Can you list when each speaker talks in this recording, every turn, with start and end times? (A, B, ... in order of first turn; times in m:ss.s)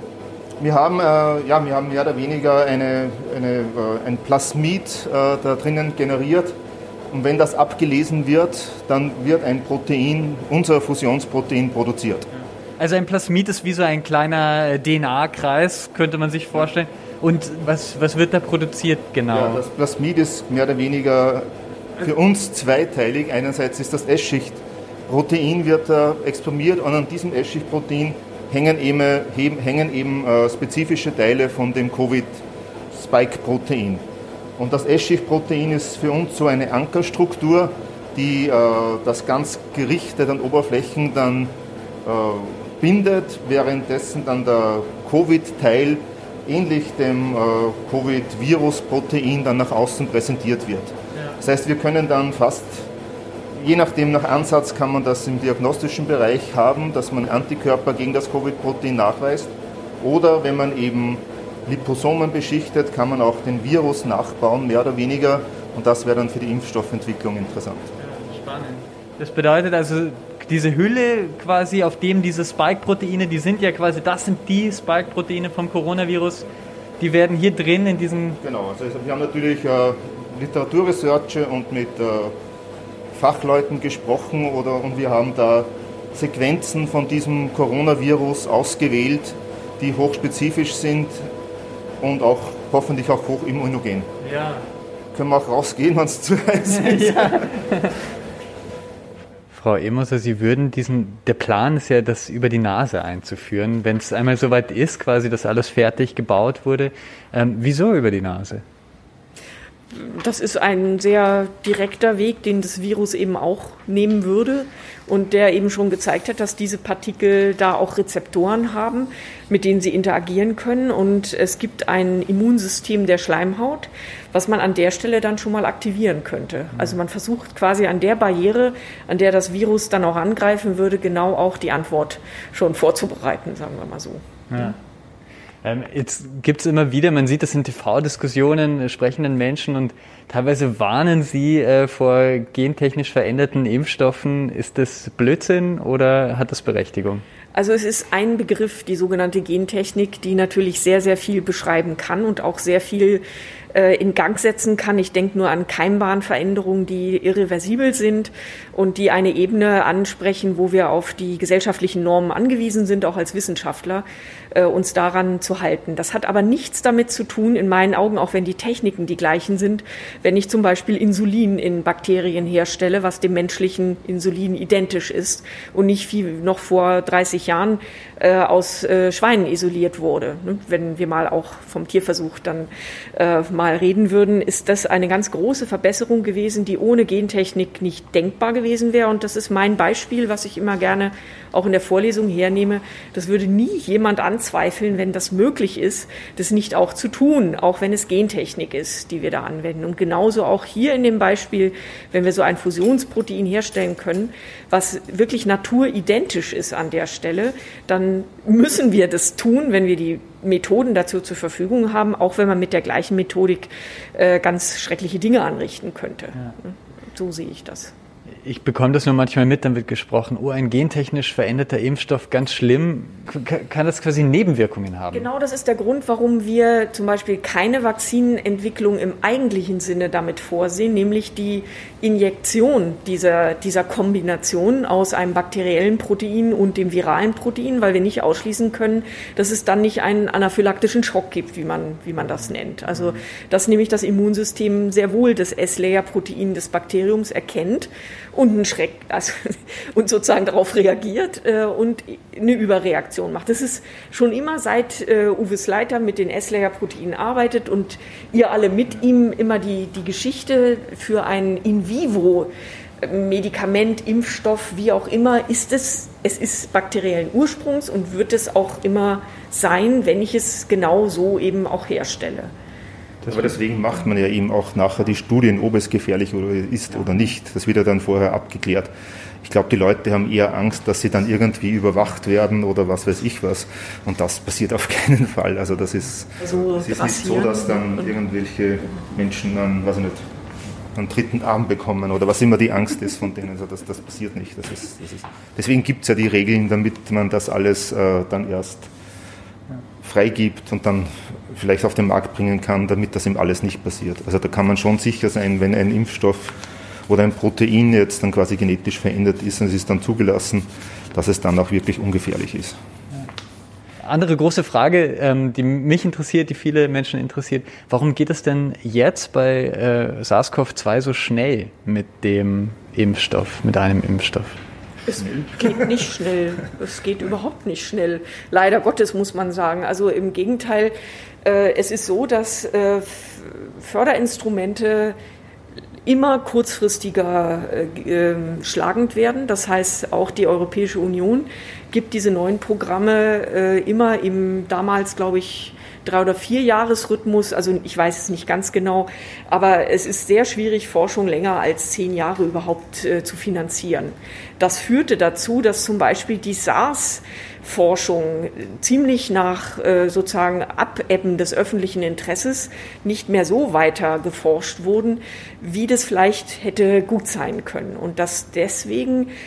0:00.6-0:06.6 A
0:07.1-0:12.3 A
0:12.8-0:19.6 B
0:19.3-0:34.0 A
0:34.6-0:52.9 A
0:53.5-1:07.9 A
1:08.0-1:16.5 B
1:17.0-1:18.4 B
1:18.4-1:22.4 A
1:23.1-1:31.3 A
1:32.0-1:34.1 A
1:34.2-1:34.6 B
1:35.1-1:37.5 A
1:36.7-1:38.0 B
1:39.5-1:48.6 B
1:49.9-2:14.7 C
2:14.5-2:14.8 B
2:15.6-2:27.2 B
2:27.5-3:37.9 C
3:38.4-3:45.3 B
3:45.1-4:32.5 C
4:33.2-4:38.9 A
4:39.4-4:50.3 A
4:46.4-4:48.1 C
4:50.9-4:58.9 A
5:00.0-5:12.8 A
5:14.0-5:24.6 B
5:25.1-5:35.2 C
5:36.1-6:09.3 C